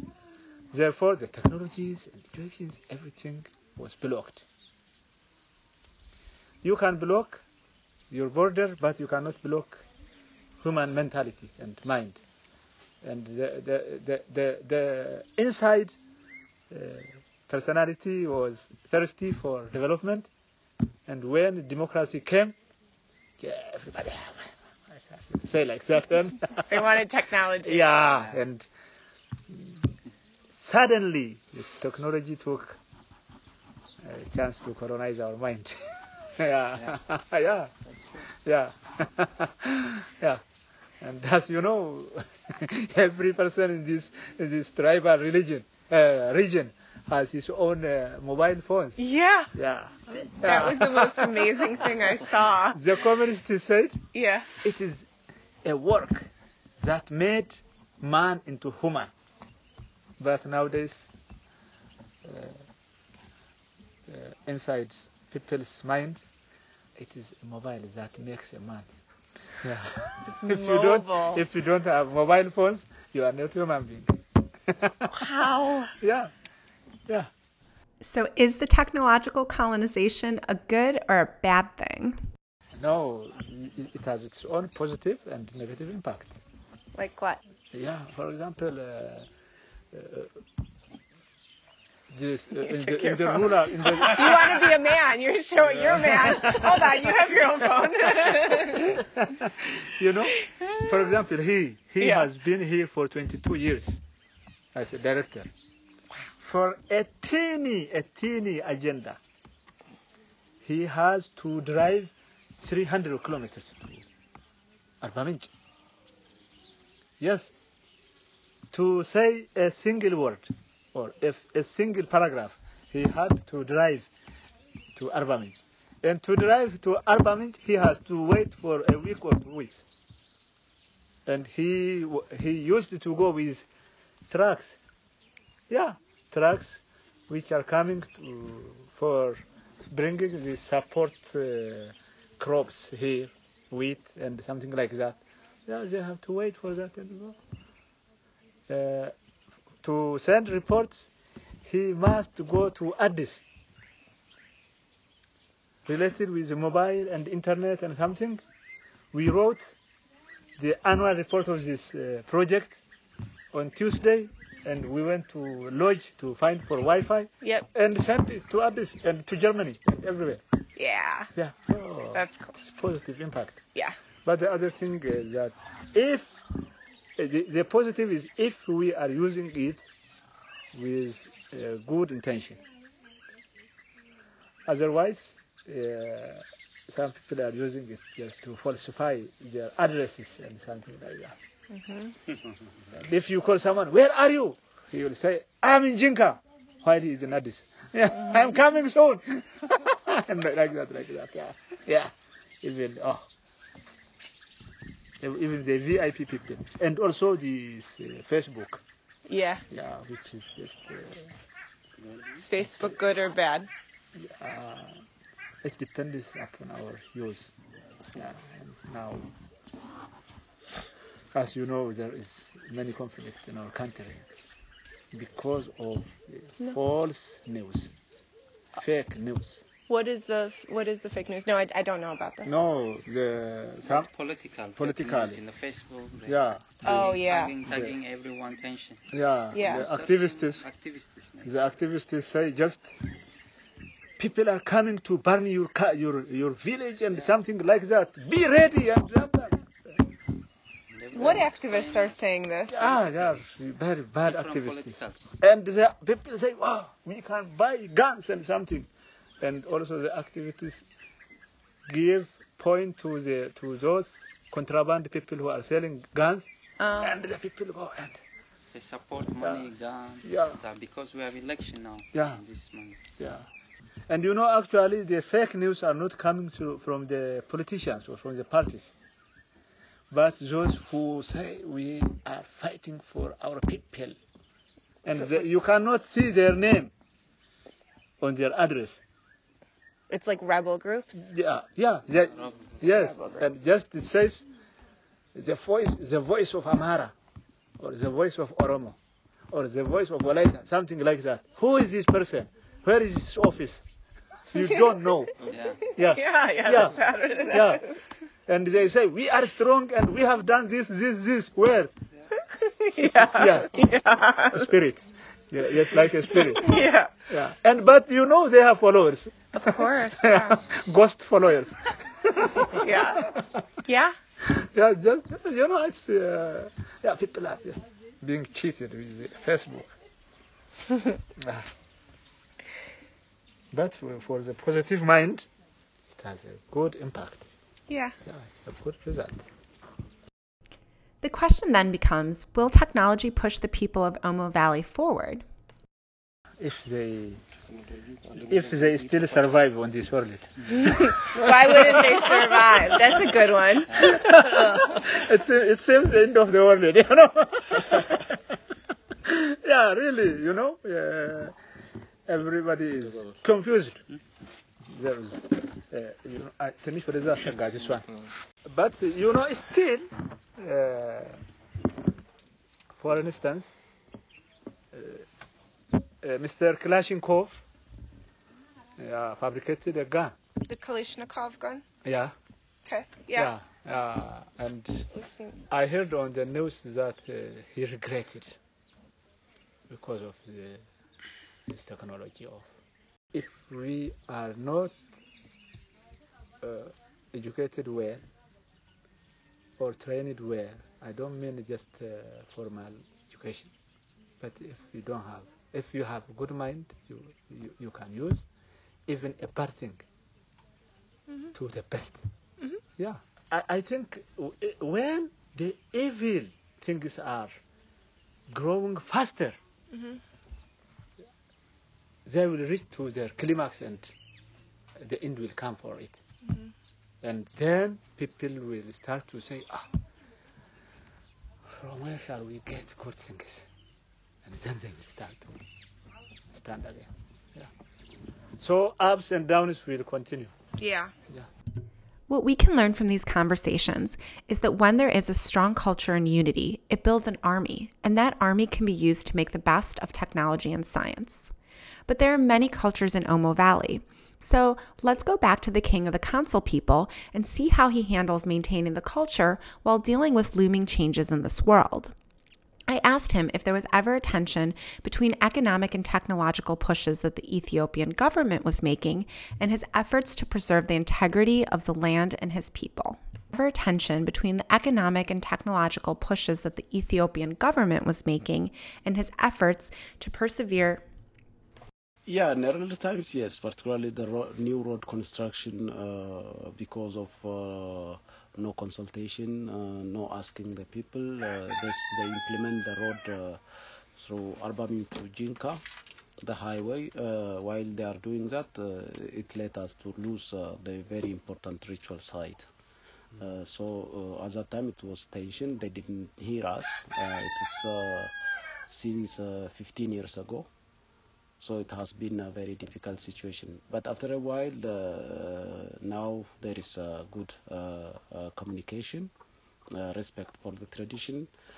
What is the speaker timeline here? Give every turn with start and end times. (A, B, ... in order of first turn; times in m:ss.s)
0:00.7-0:04.4 A
0:06.6-0:07.4 A
0:08.1-0:09.8 A
0:10.6-0:12.2 A
0:13.0-0:15.9 A
0:16.7-0:20.3 A
0:21.1-0:22.6 A
0:23.4-0:27.0 A
0:26.7-0:28.2 B
0:27.6-0:28.7 A
0:29.5-0:29.8 A
0:30.6-0:32.8 A
0:34.0-0:37.7 A
0:38.3-0:40.4 A
0:41.0-0:49.0 A
0:49.0-0:49.5 B
0:49.5-0:51.9 A
0:50.2-0:52.8 B
0:52.7-0:54.0 A
0:54.1-0:54.5 B
0:54.6-0:55.1 A
0:55.6-0:56.3 A
0:56.8-0:59.1 A
1:00.2-1:01.1 A
1:02.2-1:02.6 A
1:04.1-1:06.2 A
1:07.0-1:08.9 A
1:09.6-1:15.2 A
1:10.3-1:11.4 B
1:15.1-1:15.9 B
1:16.0-1:16.3 A
1:18.0-1:22.2 C
1:22.8-1:26.3 A
1:26.9-1:27.4 B
1:27.7-1:29.3 A
1:29.9-1:30.3 A
1:32.1-1:34.7 A
1:32.6-1:39.0 B
1:35.7-1:37.1 A
1:38.5-1:44.0 A
1:42.0-1:42.3 B
1:44.7-1:45.5 A
1:46.4-1:49.2 A
1:50.6-1:54.0 A
1:55.0-1:55.5 A
1:57.2-1:57.5 A
1:58.7-2:04.1 A
2:05.0-2:09.8 A
2:11.2-2:13.6 A
2:14.3-2:14.8 A
2:15.7-2:27.4 A
2:28.7-2:29.1 A
2:29.8-2:31.1 A
2:31.6-2:33.4 A
2:35.9-2:38.4 A
2:39.1-2:39.7 A
2:40.6-2:42.8 A
2:43.5-2:50.4 A
2:47.4-2:47.7 B
2:50.8-2:51.3 B
2:51.4-2:53.6 A
2:52.1-2:52.5 B
2:54.2-2:56.4 A
2:57.2-2:59.8 A
3:00.7-3:02.6 A
3:04.6-3:11.4 A
3:11.7-3:12.1 B
3:12.9-3:23.3 A
3:25.2-3:28.8 A
3:29.3-3:29.6 B
3:29.7-3:31.3 A
3:32.4-3:33.7 B
3:32.6-3:33.0 A
3:34.2-3:35.0 A
3:35.6-3:37.5 A
3:38.1-3:39.3 A
3:41.3-3:44.3 A
3:45.1-3:47.9 A
3:48.8-3:49.6 A
3:49.9-3:52.6 B
3:52.4-3:54.1 A
3:53.8-3:59.0 D
3:54.8-3:55.4 A
3:56.2-3:57.0 A
3:56.8-3:57.5 B
3:57.6-3:57.9 A
3:59.1-4:00.7 A
3:59.5-3:59.9 B
3:59.6-4:01.5 D
4:01.4-4:02.9 A
4:04.2-4:09.7 A
4:10.9-4:12.2 D
4:11.1-4:12.9 B
4:12.7-4:18.9 A
4:12.8-4:13.5 D
4:14.2-4:15.4 D
4:19.4-4:20.8 A
4:21.9-4:28.2 A
4:26.8-4:27.2 B
4:28.7-4:33.2 D
4:29.4-4:29.7 A
4:30.2-4:30.6 A
4:32.1-4:32.4 A
4:33.2-4:33.5 A
4:34.1-4:38.9 A
4:40.1-4:44.2 A
4:45.0-4:46.9 A
4:45.1-4:45.4 B
4:48.2-4:49.0 A
4:50.1-4:51.3 B
4:51.1-4:54.5 A
4:52.4-4:52.7 D
4:52.8-4:53.6 B
4:55.3-4:57.1 A
4:57.8-4:59.0 A
4:59.5-5:03.8 A
5:04.5-5:05.4 A
5:05.5-5:05.8 D
5:06.0-5:07.8 A
5:06.0-5:07.9 B
5:08.5-5:11.9 A
5:12.6-5:14.7 B
5:13.3-5:13.8 A
5:14.5-5:23.4 A
5:16.4-5:17.2 B
5:19.5-5:20.7 B
5:22.7-5:24.1 B
5:24.4-5:29.9 A
5:31.4-5:31.7 A
5:33.7-5:35.5 A
5:36.1-5:37.5 A
5:37.9-5:38.2 B
5:38.2-5:39.4 A
5:41.2-5:45.4 C
5:46.6-5:47.4 A
5:48.3-5:51.4 A
5:50.7-5:54.4 B
5:54.0-5:58.4 A
5:59.2-6:01.5 A
6:02.2-6:04.0 A
6:04.9-6:11.4 A
6:13.0-6:13.7 A
6:14.9-6:15.2 A
6:16.2-6:17.6 A
6:19.0-6:20.4 A
6:20.6-6:21.8 B
6:22.0-6:22.3 A
6:22.8-6:23.5 B
6:23.3-6:25.1 A
6:25.1-6:25.6 B
6:25.7-6:28.6 A
6:29.9-6:30.8 A
6:31.7-6:32.7 A
6:33.3-6:35.0 A
6:36.6-6:38.2 A
6:39.8-6:43.7 A
6:44.4-6:48.5 A
6:49.1-6:50.0 A
6:51.5-6:52.2 A
6:53.0-6:57.6 A
6:58.5-6:59.6 A
6:59.9-7:00.2 B
7:02.2-7:04.1 A
7:05.0-7:06.2 A
7:06.4-7:06.7 B
7:07.2-7:09.9 A
7:11.8-7:13.6 A
7:14.4-7:15.6 A
7:16.5-7:17.7 A
7:18.6-7:20.5 A
7:20.8-7:21.1 B
7:22.3-7:31.5 C
7:32.1-7:42.1 C
7:42.9-8:01.0 C
8:02.2-8:13.6 E
8:14.2-8:15.8 E
8:16.4-8:22.7 E
8:23.4-8:28.3 E
8:28.8-8:30.7 E
8:31.6-8:39.3 E
8:39.9-8:41.5 E